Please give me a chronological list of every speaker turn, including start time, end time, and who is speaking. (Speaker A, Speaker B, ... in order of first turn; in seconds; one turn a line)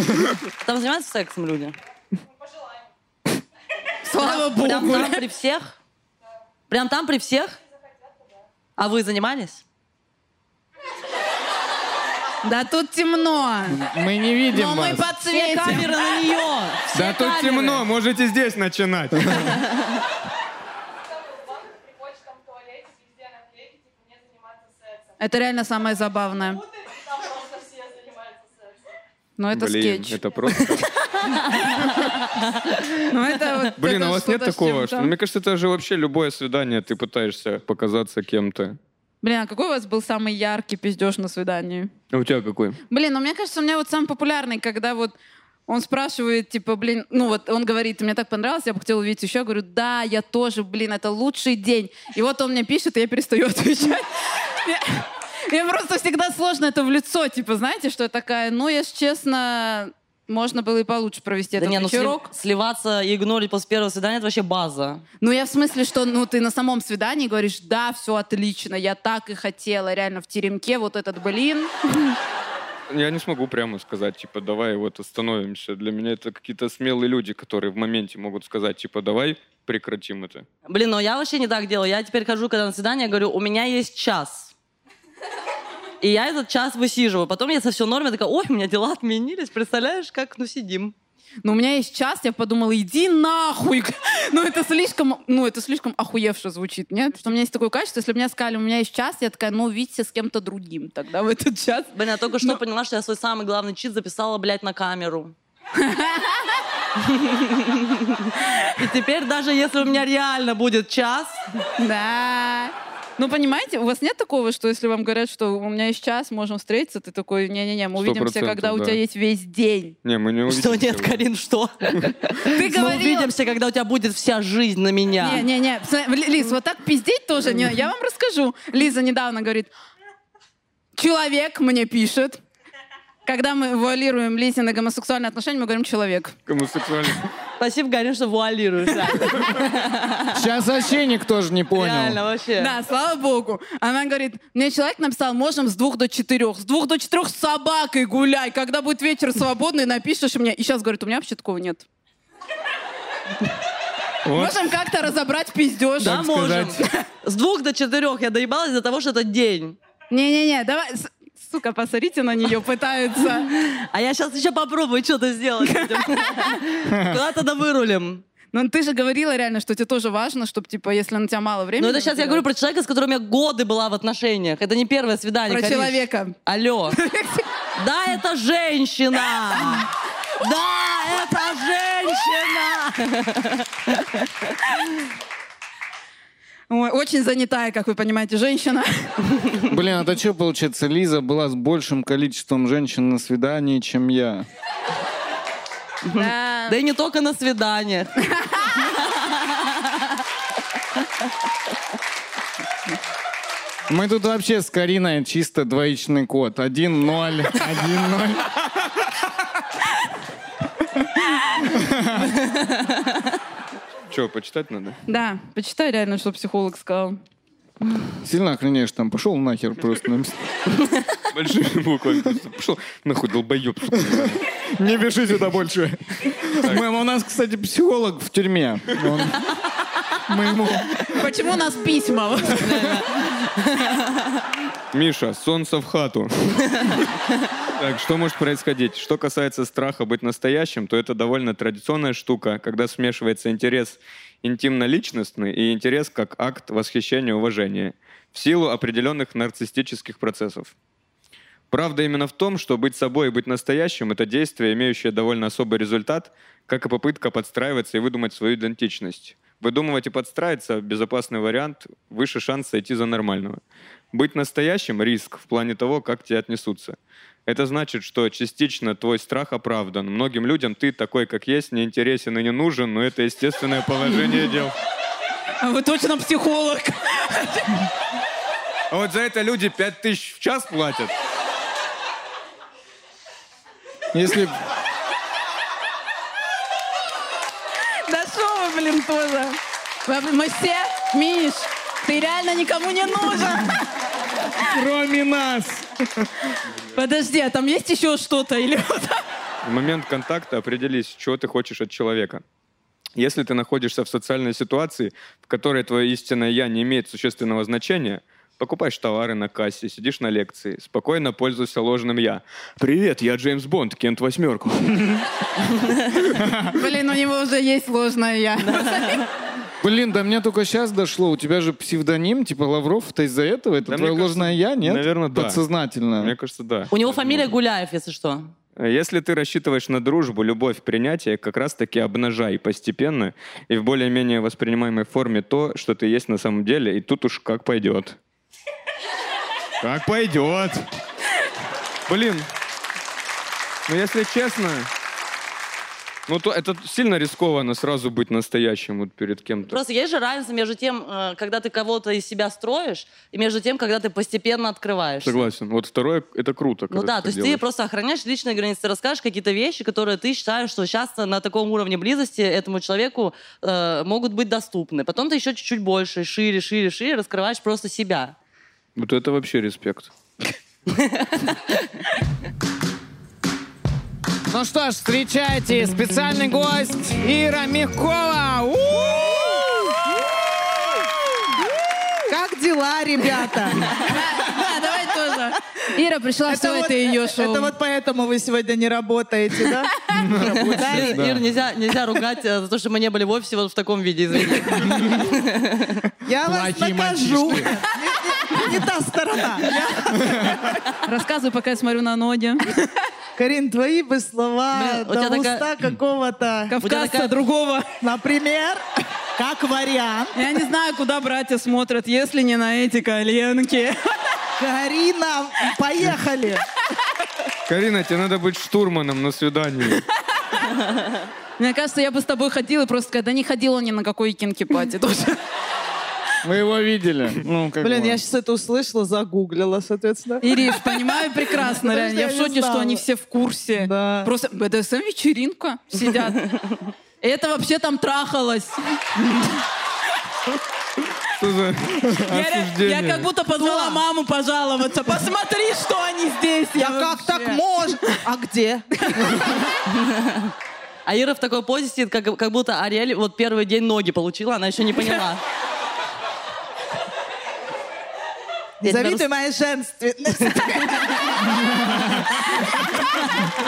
Speaker A: 0.6-1.7
Speaker B: 4.0-5.2
Speaker A: 4.1-5.8
Speaker A: 6.7-7.6
Speaker A: 8.8-9.6
Speaker B: 12.4-13.8
Speaker C: 13.7-15.1
Speaker B: 14.5-16.0
Speaker A: 15.3-17.7
Speaker D: 16.9-19.6
Speaker B: 17.0-17.8
Speaker B: 25.2-26.6
Speaker B: 29.4-30.2
Speaker D: 29.5-30.9
Speaker A: 31.2-32.9
Speaker B: 33.0-35.1
Speaker D: 33.8-38.8
Speaker B: 39.2-41.9
Speaker D: 42.1-42.8
Speaker B: 42.9-45.1
Speaker B: 45.7-62.3
Speaker A: 61.6-65.0
Speaker B: 65.2-72.1
Speaker D: 72.9-80.5
Speaker A: 80.7-84.5
Speaker A: 86.0-90.9
Speaker B: 91.4-102.6
Speaker A: 101.9-105.3
Speaker B: 105.8-106.6
Speaker A: 107.0-111.4
Speaker B: 111.8-120.0
Speaker D: 118.0-119.0
Speaker D: 120.0-121.2
Speaker A: 120.5-125.5
Speaker B: 122.4-123.3
Speaker B: 125.2-129.7
Speaker B: 130.9-132.4
Speaker B: 133.2-136.3
Speaker D: 136.5-137.2
Speaker A: 137.6-140.4
Speaker C: 140.3-142.2
Speaker A: 141.7-142.7
Speaker B: 142.6-151.8
Speaker D: 154.2-154.6
Speaker B: 154.3-156.8
Speaker A: 156.0-159.8
Speaker B: 160.1-163.5
Speaker A: 163.5-168.2
Speaker B: 165.7-166.6
Speaker C: 166.8-167.2
Speaker B: 168.5-172.4
Speaker A: 171.8-177.0
Speaker B: 175.5-176.3
Speaker B: 176.9-177.5
Speaker A: 177.8-184.5
Speaker B: 186.7-189.2
Speaker C: 189.7-194.5
Speaker A: 196.0-198.1
Speaker B: 196.1-196.8
Speaker B: 198.3-198.9
Speaker C: 203.9-208.6
Speaker C: 211.6-212.3
Speaker D: 214.1-215.0
Speaker B: 215.1-217.2
Speaker C: 218.2-220.4
Speaker D: 221.3-224.4
Speaker C: 224.0-229.4
Speaker C: 230.3-231.2
Speaker B: 231.0-232.8
Speaker A: 232.5-234.4
Speaker D: 234.9-237.0
Speaker A: 236.7-237.0
Speaker D: 237.8-250.7
Speaker D: 251.7-274.7
Speaker B: 275.6-277.9
Speaker D: 278.9-281.1
Speaker C: 284.1-284.6
Speaker B: 288.1-293.8
Speaker C: 294.6-296.3
Speaker B: 296.9-299.2
Speaker D: 299.6-302.4
Speaker D: 303.1-315.2
Speaker C: 316.4-316.7
Speaker B: 316.7-319.3
Speaker A: 318.6-319.3
Speaker C: 319.8-326.3
Speaker D: 323.9-325.6
Speaker D: 326.2-327.5
Speaker A: 326.9-328.5
Speaker D: 328.8-338.2
Speaker D: 339.8-340.9
Speaker D: 342.1-342.5
Speaker D: 343.9-344.9
Speaker D: 346.3-349.8
Speaker A: 349.7-355.4
Speaker D: 355.2-357.6
Speaker A: 356.9-368.3
Speaker D: 368.9-370.1
Speaker A: 370.9-371.8
Speaker C: 374.5-379.7
Speaker E: 382.3-384.6
Speaker B: 384.0-387.7
Speaker E: 386.5-391.2
Speaker C: 390.1-391.4
Speaker A: 390.4-396.1
Speaker E: 396.2-400.8
Speaker C: 396.4-397.8
Speaker C: 400.2-400.5
Speaker B: 401.0-402.9
Speaker E: 403.4-406.7
Speaker A: 404.7-405.7
Speaker B: 406.7-407.9
Speaker A: 406.8-407.3
Speaker E: 408.0-408.8
Speaker E: 409.4-410.4
Speaker B: 410.3-414.2
Speaker E: 414.6-416.6
Speaker D: 417.7-420.0
Speaker B: 421.6-425.4
Speaker C: 426.4-428.2
Speaker E: 427.8-433.0
Speaker B: 430.4-436.6
Speaker E: 433.7-434.3
Speaker B: 437.2-439.6
Speaker D: 441.4-443.3
Speaker B: 442.2-447.6
Speaker E: 443.6-444.0
Speaker E: 446.8-449.5
Speaker B: 449.0-449.4
Speaker A: 449.9-450.5
Speaker A: 451.1-455.4
Speaker E: 458.8-463.5
Speaker A: 458.8-459.2